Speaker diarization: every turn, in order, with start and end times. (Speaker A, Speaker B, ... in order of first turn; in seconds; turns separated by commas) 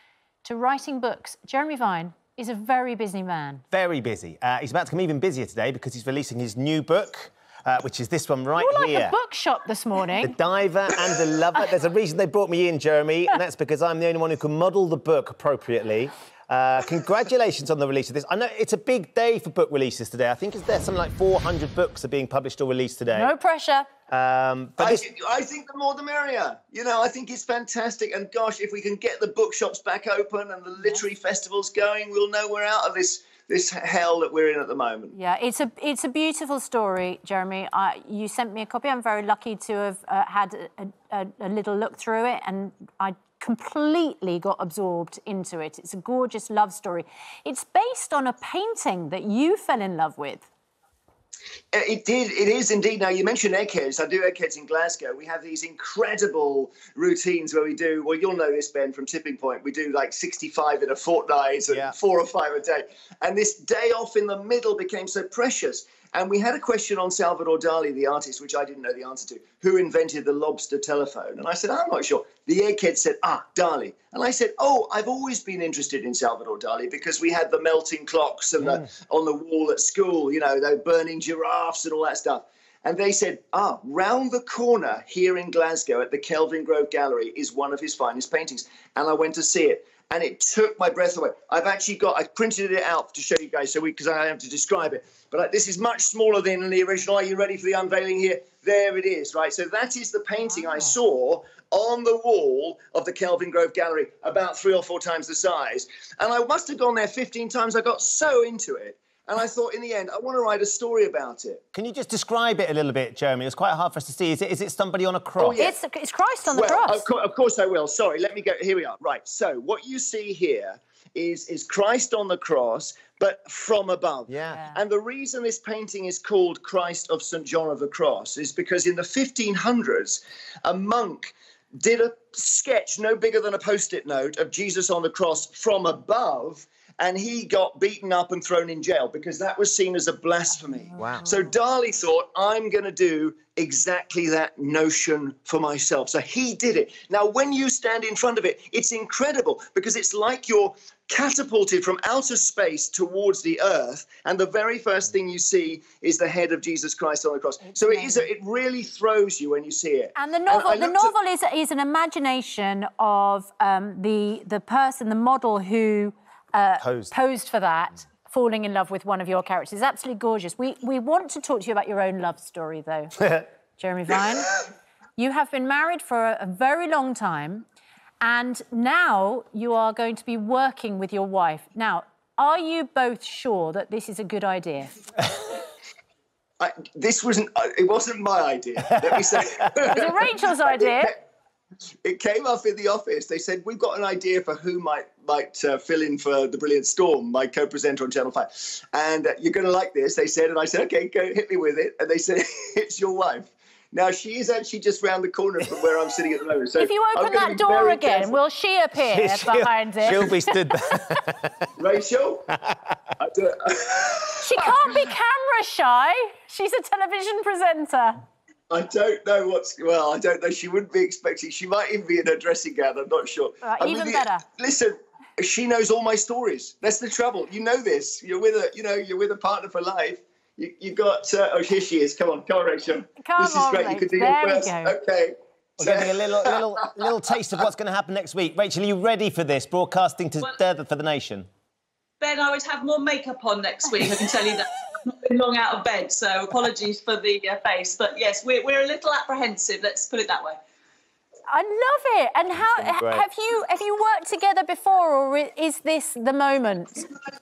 Speaker A: 0.4-3.6, Speaker B: 3.7-9.1, Speaker A: 8.6-10.3, Speaker B: 10.2-23.3, Speaker A: 23.1-23.9, Speaker B: 24.1-25.0, Speaker C: 24.8-35.1, Speaker A: 35.1-50.5, Speaker C: 51.7-111.6, Speaker B: 61.7-61.9, Speaker A: 100.4-101.0, Speaker B: 111.7-115.6, Speaker C: 115.4-115.8, Speaker A: 115.6-117.1, Speaker C: 116.5-161.1, Speaker B: 124.3-124.6, Speaker A: 124.5-124.8, Speaker B: 141.0-141.2, Speaker A: 157.7-158.2, Speaker A: 160.2-173.2, Speaker B: 166.8-167.1, Speaker A: 173.8-174.6, Speaker A: 175.2-177.6, Speaker A: 178.2-185.0, Speaker C: 186.6-191.2, Speaker A: 189.8-191.1, Speaker C: 192.0-208.4, Speaker A: 206.8-211.0, Speaker B: 208.9-211.7, Speaker C: 211.8-212.5, Speaker B: 212.5-212.9, Speaker C: 213.2-214.7, Speaker A: 214.4-218.2, Speaker C: 218.7-237.1, Speaker A: 223.6-224.4, Speaker A: 233.2-234.9, Speaker B: 235.8-241.5, Speaker D: 242.2-250.6, Speaker A: 251.5-257.1, Speaker B: 252.6-253.2